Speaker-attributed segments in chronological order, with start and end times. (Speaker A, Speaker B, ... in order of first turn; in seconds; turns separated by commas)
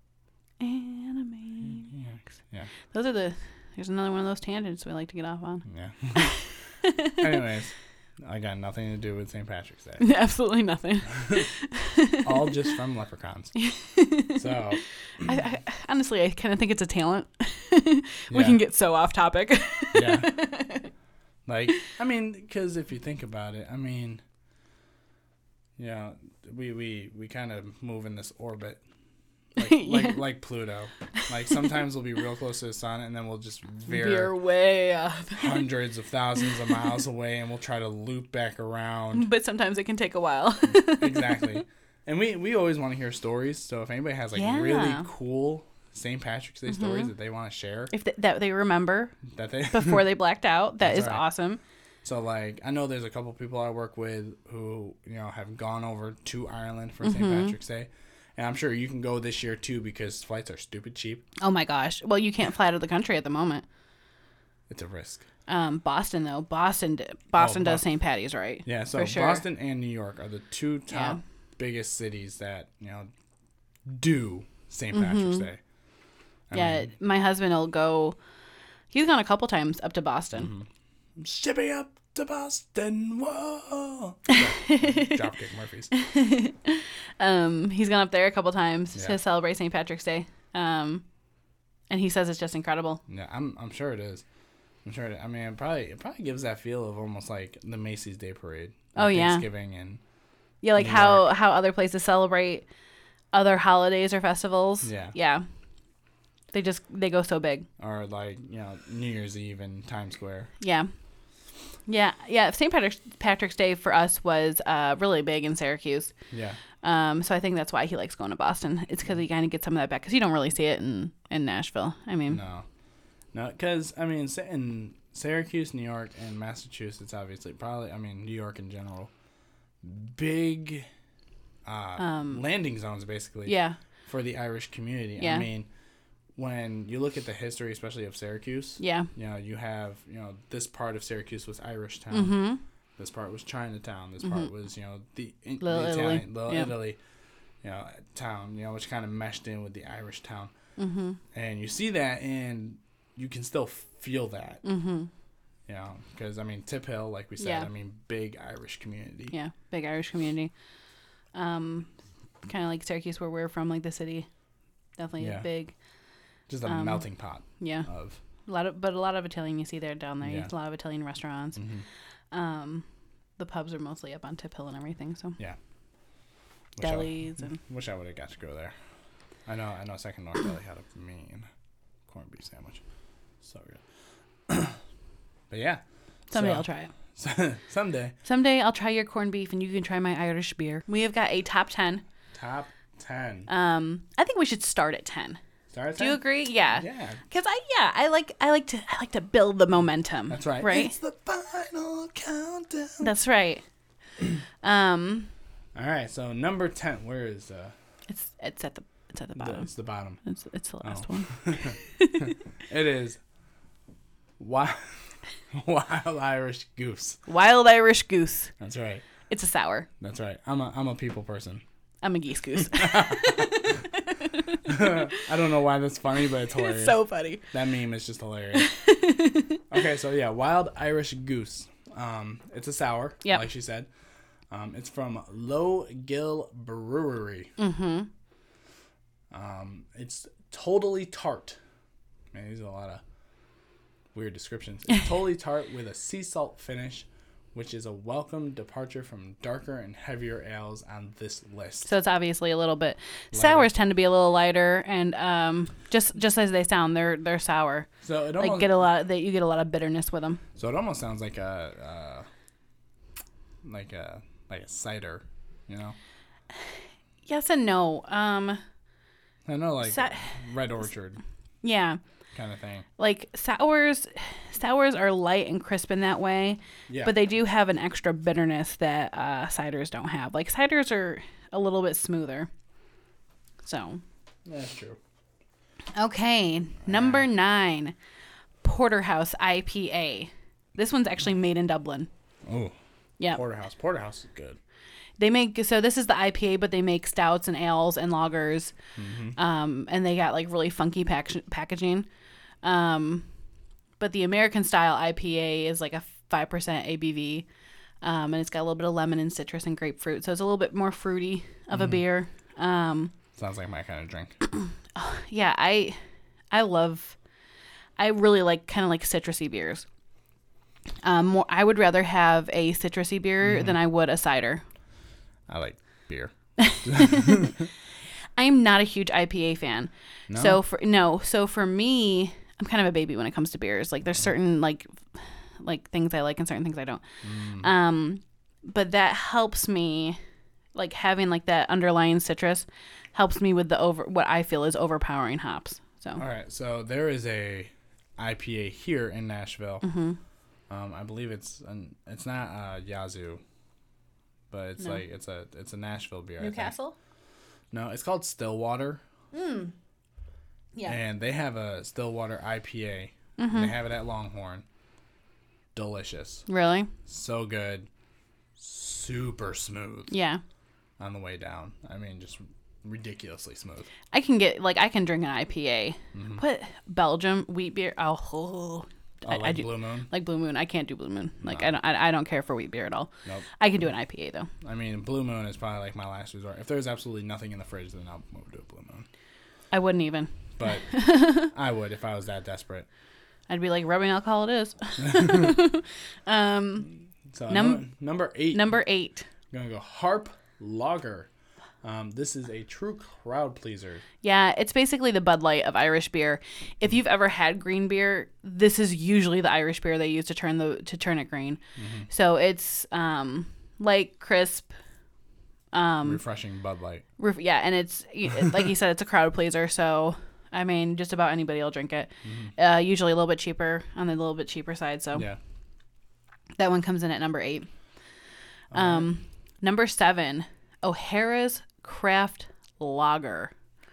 Speaker A: 0.6-1.9, Speaker B: 1.6-2.7, Speaker A: 2.9-7.2, Speaker B: 5.7-6.3, Speaker B: 7.2-10.1, Speaker A: 10.0-12.5, Speaker B: 12.2-13.5, Speaker A: 13.6-14.4, Speaker B: 14.3-15.4, Speaker A: 15.2-20.9, Speaker B: 18.3-18.6, Speaker B: 19.9-20.3, Speaker B: 21.4-24.2, Speaker B: 25.8-28.8, Speaker A: 29.6-30.2, Speaker B: 29.6-34.3, Speaker A: 33.9-35.6, Speaker B: 35.4-39.3, Speaker A: 39.1-41.6, Speaker B: 40.7-47.9, Speaker A: 44.3-45.1, Speaker A: 46.7-47.1, Speaker A: 47.9-51.6, Speaker B: 49.3-50.0, Speaker B: 50.8-51.2, Speaker B: 52.0-61.2, Speaker A: 57.0-57.5, Speaker A: 61.4-63.6, Speaker B: 64.7-65.3, Speaker A: 65.5-69.4, Speaker B: 67.4-67.8, Speaker B: 68.6-73.1, Speaker A: 70.9-71.2, Speaker B: 73.8-75.6, Speaker A: 74.9-75.5, Speaker B: 76.5-76.9, Speaker A: 76.5-78.2, Speaker A: 78.9-80.5, Speaker B: 80.3-85.9, Speaker A: 84.3-85.2, Speaker A: 85.9-91.0, Speaker A: 91.9-93.0, Speaker B: 93.1-94.2, Speaker B: 94.8-100.0, Speaker A: 99.0-99.4, Speaker A: 100.6-102.6, Speaker B: 100.8-101.3, Speaker A: 103.3-105.4, Speaker B: 104.8-105.1, Speaker A: 106.5-107.7, Speaker B: 107.8-110.5, Speaker A: 110.6-110.9, Speaker A: 111.9-116.1, Speaker B: 116.3-116.6, Speaker A: 116.8-122.4, Speaker B: 122.3-122.7, Speaker B: 123.3-129.1, Speaker B: 129.8-130.9, Speaker B: 131.6-135.7, Speaker A: 132.0-132.4, Speaker A: 133.5-133.8, Speaker A: 135.2-135.4, Speaker B: 136.3-142.4, Speaker A: 138.8-139.1, Speaker A: 142.1-142.6, Speaker B: 143.0-147.0, Speaker A: 144.2-144.5, Speaker A: 145.6-146.7, Speaker B: 147.6-150.5, Speaker A: 150.8-151.2, Speaker B: 151.3-154.6, Speaker A: 154.6-155.1, Speaker B: 155.7-159.3, Speaker A: 157.4-157.7, Speaker A: 159.3-160.5, Speaker A: 161.3-161.9, Speaker A: 162.4-164.3, Speaker A: 165.0-165.7, Speaker B: 165.2-165.5, Speaker B: 166.5-168.2, Speaker A: 166.7-167.0, Speaker A: 167.6-167.9, Speaker A: 168.4-171.6, Speaker B: 170.2-170.5, Speaker B: 171.6-171.8, Speaker A: 172.3-172.8, Speaker A: 173.4-175.4, Speaker B: 176.7-178.7, Speaker A: 176.8-177.6, Speaker B: 179.4-181.5, Speaker B: 182.1-182.8, Speaker B: 183.4-183.8, Speaker B: 184.5-184.8, Speaker B: 185.5-188.1, Speaker A: 186.3-186.9, Speaker A: 188.2-192.0, Speaker B: 192.3-193.5, Speaker A: 193.5-195.4, Speaker B: 195.7-197.2, Speaker A: 196.0-200.9, Speaker B: 200.3-203.1, Speaker A: 203.0-203.6, Speaker A: 204.6-205.3, Speaker B: 205.7-207.7, Speaker A: 208.1-209.7, Speaker B: 209.3-210.2, Speaker A: 210.2-212.3, Speaker B: 210.8-213.2, Speaker B: 214.4-217.2, Speaker A: 217.3-218.5, Speaker B: 218.6-219.1, Speaker A: 219.3-219.9, Speaker B: 220.0-221.6, Speaker A: 222.0-225.3, Speaker B: 222.6-223.8, Speaker B: 224.7-227.0, Speaker A: 226.5-227.5, Speaker B: 227.5-228.7, Speaker A: 228.6-229.6, Speaker B: 229.7-233.9, Speaker B: 234.5-237.5, Speaker A: 237.6-238.1, Speaker B: 239.3-241.6, Speaker B: 242.3-243.0, Speaker B: 244.1-251.9, Speaker A: 251.8-260.4, Speaker B: 253.3-253.7, Speaker B: 258.0-258.7, Speaker B: 260.6-262.2, Speaker B: 263.6-265.9, Speaker A: 267.2-268.6, Speaker B: 269.4-271.2, Speaker A: 269.8-270.4, Speaker A: 271.6-272.0, Speaker B: 272.3-272.9, Speaker A: 273.0-282.5, Speaker B: 276.9-277.1, Speaker A: 283.6-284.0, Speaker B: 284.4-285.0, Speaker A: 285.9-287.9, Speaker B: 286.8-287.2, Speaker A: 288.6-292.1, Speaker B: 292.4-292.7, Speaker B: 293.3-294.6, Speaker A: 295.2-298.7, Speaker B: 298.9-299.4, Speaker A: 299.4-302.1, Speaker A: 302.6-303.2, Speaker A: 304.0-307.4, Speaker A: 308.0-313.1, Speaker B: 311.7-312.0, Speaker B: 313.3-314.4, Speaker A: 314.5-316.0, Speaker A: 316.5-317.1, Speaker A: 318.0-319.8, Speaker A: 321.0-324.6, Speaker B: 323.4-323.8, Speaker B: 325.5-327.7, Speaker A: 326.6-327.5, Speaker A: 328.4-337.0, Speaker B: 330.3-330.6, Speaker B: 337.2-337.7, Speaker A: 337.6-340.2, Speaker A: 340.7-346.2, Speaker B: 346.2-349.8, Speaker A: 349.8-350.2, Speaker B: 350.7-353.4, Speaker B: 354.5-356.7, Speaker A: 356.4-356.9, Speaker B: 357.7-359.0, Speaker A: 359.3-359.7, Speaker B: 360.9-364.6, Speaker A: 363.4-363.7, Speaker B: 365.7-366.4, Speaker A: 366.5-366.9, Speaker B: 367.1-367.9, Speaker B: 368.6-370.1, Speaker A: 370.1-370.4, Speaker B: 371.0-373.9, Speaker A: 374.1-384.5, Speaker B: 376.1-376.4, Speaker B: 379.2-380.1, Speaker B: 381.4-381.7, Speaker B: 384.6-389.1, Speaker A: 389.7-391.5, Speaker B: 390.6-392.9, Speaker A: 393.5-396.9, Speaker B: 395.1-395.5, Speaker B: 397.3-398.8, Speaker A: 397.5-397.8, Speaker A: 398.5-399.3, Speaker B: 399.5-401.3, Speaker B: 401.8-404.0, Speaker A: 404.2-414.7, Speaker B: 411.8-412.1, Speaker A: 415.7-416.2, Speaker B: 416.0-417.1, Speaker A: 417.2-425.3, Speaker B: 422.2-422.5, Speaker B: 425.1-425.4, Speaker A: 426.6-427.7, Speaker B: 428.7-429.1, Speaker A: 428.7-433.5